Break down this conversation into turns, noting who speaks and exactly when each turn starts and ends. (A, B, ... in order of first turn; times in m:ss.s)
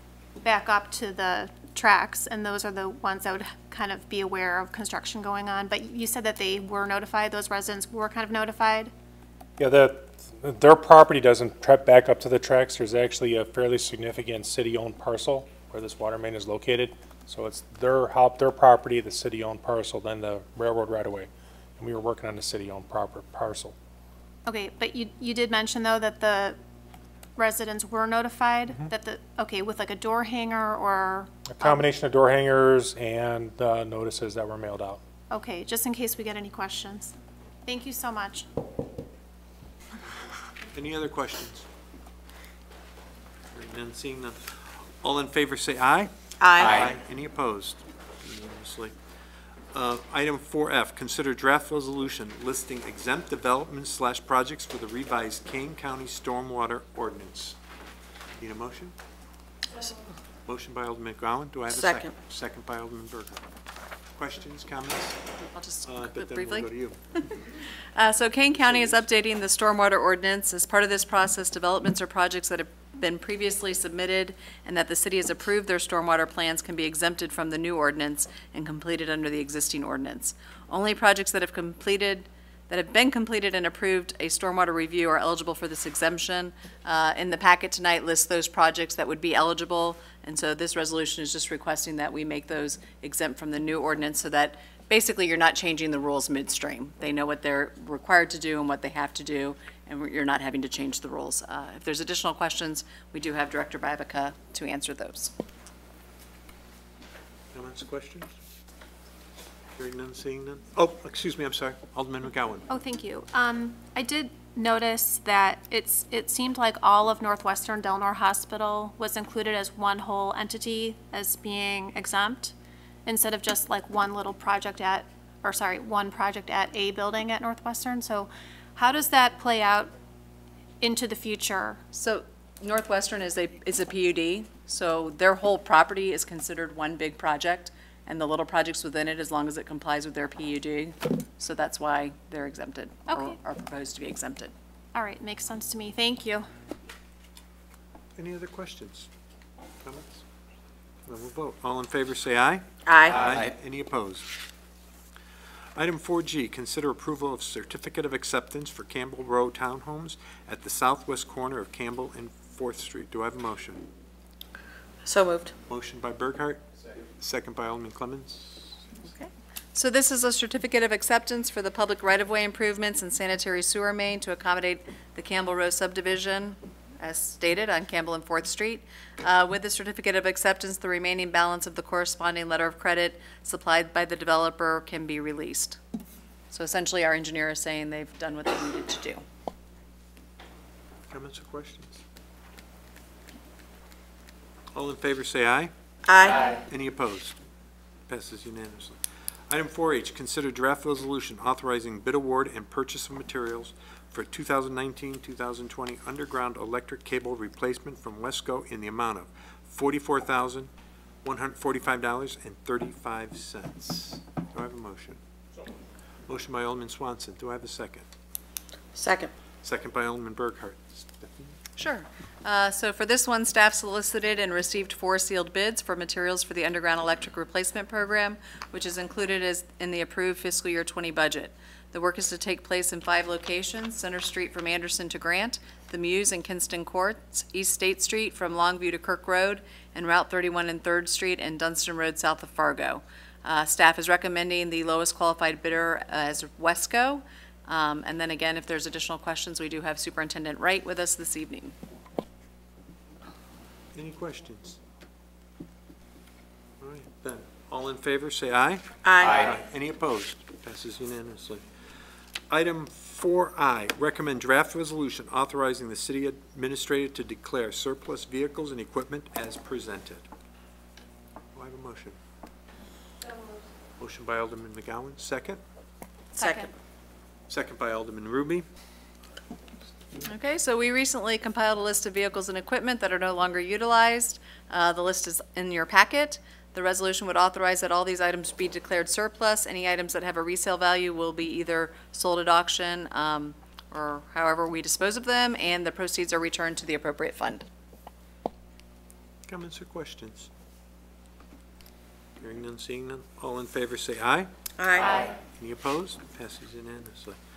0:00.4-0:08.9 A
0:09.6-0:23.7 B
0:24.5-0:26.6 A
0:27.4-0:31.8 A
0:31.5-0:35.0 B
0:35.3-0:37.1 A
0:37.6-0:38.5 A
0:40.7-0:41.6 C
0:43.5-0:48.9 C
0:46.4-0:46.8 D
0:49.7-0:57.6 C
0:58.4-0:58.9 C
1:00.4-1:03.4 C
1:01.7-1:02.2 D
1:04.1-1:05.2 C
1:05.4-1:06.7 E
1:05.8-1:07.0 C
1:08.0-1:45.3 E
1:47.5-1:48.3 C
1:49.8-1:52.7 C
1:52.7-2:02.5 A
2:03.0-2:09.9 A
2:10.8-2:11.8 A
2:11.9-2:24.5 E
2:23.1-2:23.4 A
2:24.9-2:26.5 A
2:28.2-2:29.1 C
2:29.8-2:30.2 C
2:31.0-2:34.3 C
2:32.8-2:33.3 D
2:35.8-2:43.9 C
2:45.0-2:45.5 D
2:45.7-2:48.8 C
2:49.1-3:05.8 E
3:06.5-3:09.2 E
3:11.1-3:12.0 C
3:14.7-3:17.4 C
3:16.0-3:16.6 D
3:18.1-3:30.7 C
3:31.2-3:35.2 C
3:36.3-3:38.1 C
3:38.9-3:39.3 D
3:39.6-3:41.6 C
3:41.8-4:11.7 E
4:13.9-4:14.8 C
4:16.8-4:21.7 C
4:19.0-4:19.5 D
4:22.5-4:30.2 C
4:31.5-4:32.2 C
4:34.0-4:35.6 C
4:37.5-4:38.6 C
4:40.2-4:57.6 E
4:59.5-5:00.5 C
5:02.4-5:07.4 C
5:04.8-5:05.3 D